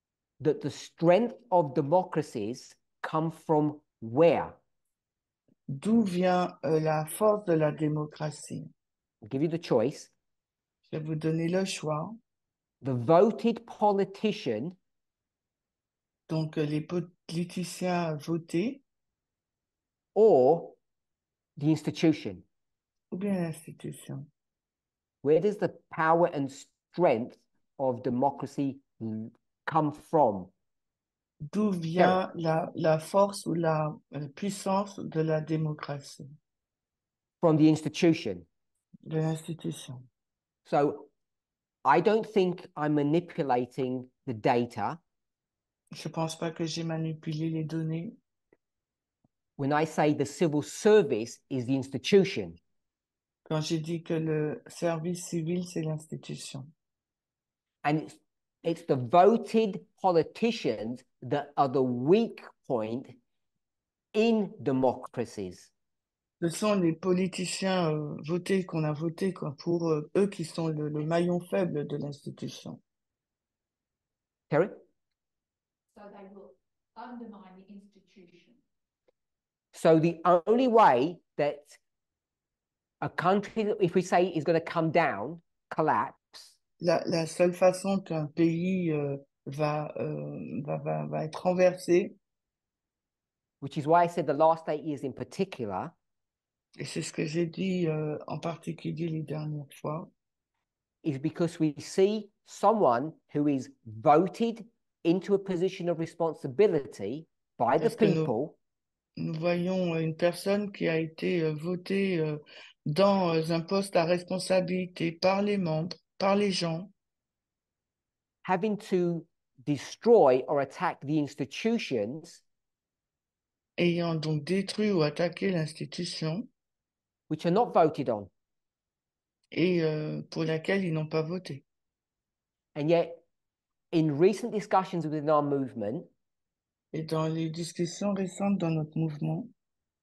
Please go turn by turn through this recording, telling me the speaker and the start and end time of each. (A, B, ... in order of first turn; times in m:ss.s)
0:00.4-0:04.6 A
0:05.7-0:08.7 B
0:09.2-0:10.1 A
0:10.9-0:12.2 B
0:12.8-0:14.8 A
0:16.3-0:18.8 B
0:20.2-0:20.8 A
0:21.6-0:22.4 A
0:23.1-0:24.3 B
0:25.2-0:30.5 A
0:31.5-0:36.4 B
0:37.4-0:38.5 A
0:39.1-0:40.1 B
0:40.7-0:41.1 A
0:41.8-0:45.0 A
0:45.9-0:48.2 B
0:49.6-0:52.6 A
0:53.5-0:56.7 B
0:57.8-1:03.2 A
1:04.1-1:05.7 A
1:06.4-1:12.8 B
1:14.5-1:14.8 A
1:15.9-1:18.6 C
1:19.7-1:21.8 A
1:23.0-1:26.6 A
1:26.8-1:32.2 B
1:33.6-1:36.0 A
1:36.8-1:40.1 B
1:41.0-1:48.6 A
1:47.8-1:48.3 B
1:49.2-1:56.9 B
1:58.4-2:02.4 A
2:03.8-2:06.5 B
2:07.3-2:08.3 A
2:09.5-2:11.6 B
2:12.8-2:13.2 A
2:13.9-2:16.1 A
2:16.9-2:19.5 B